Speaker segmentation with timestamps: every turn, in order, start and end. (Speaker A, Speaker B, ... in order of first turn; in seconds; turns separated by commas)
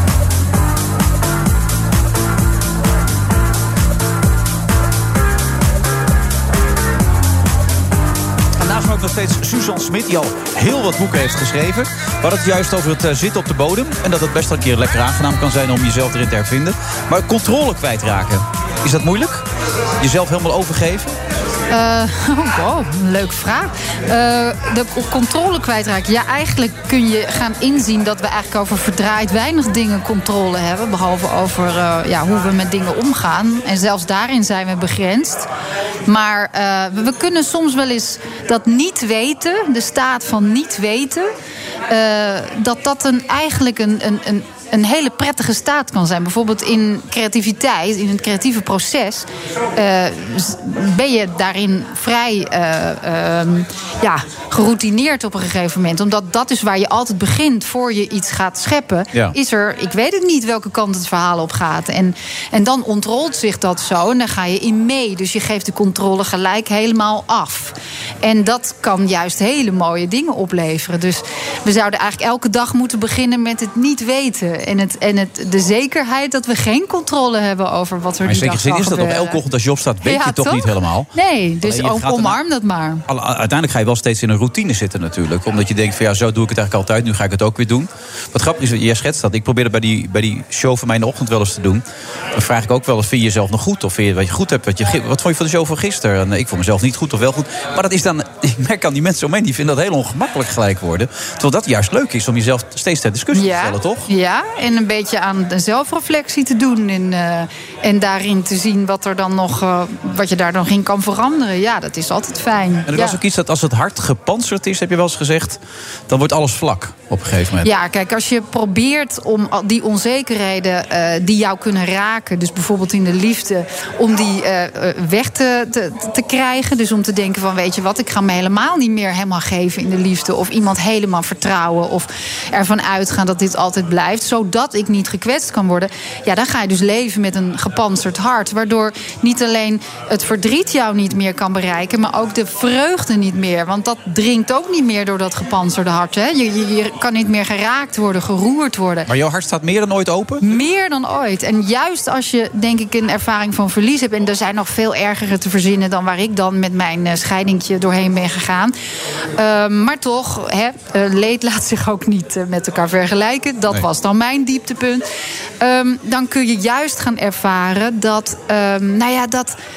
Speaker A: 8.6-19.4, Speaker A: 20.0-21.2, Speaker B: 21.7-35.5, Speaker B: 36.1-41.3, Speaker B: 41.9-79.4, Speaker A: 78.2-81.1, Speaker B: 80.0-83.0, Speaker A: 81.6-82.4, Speaker A: 83.1-104.1, Speaker B: 103.3-113.2, Speaker A: 112.9-117.7, Speaker B: 117.6-149.1, Speaker A: 149.1-150.4, Speaker B: 150.4-158.7, Speaker B: 159.4-165.0, Speaker B: 165.6-169.6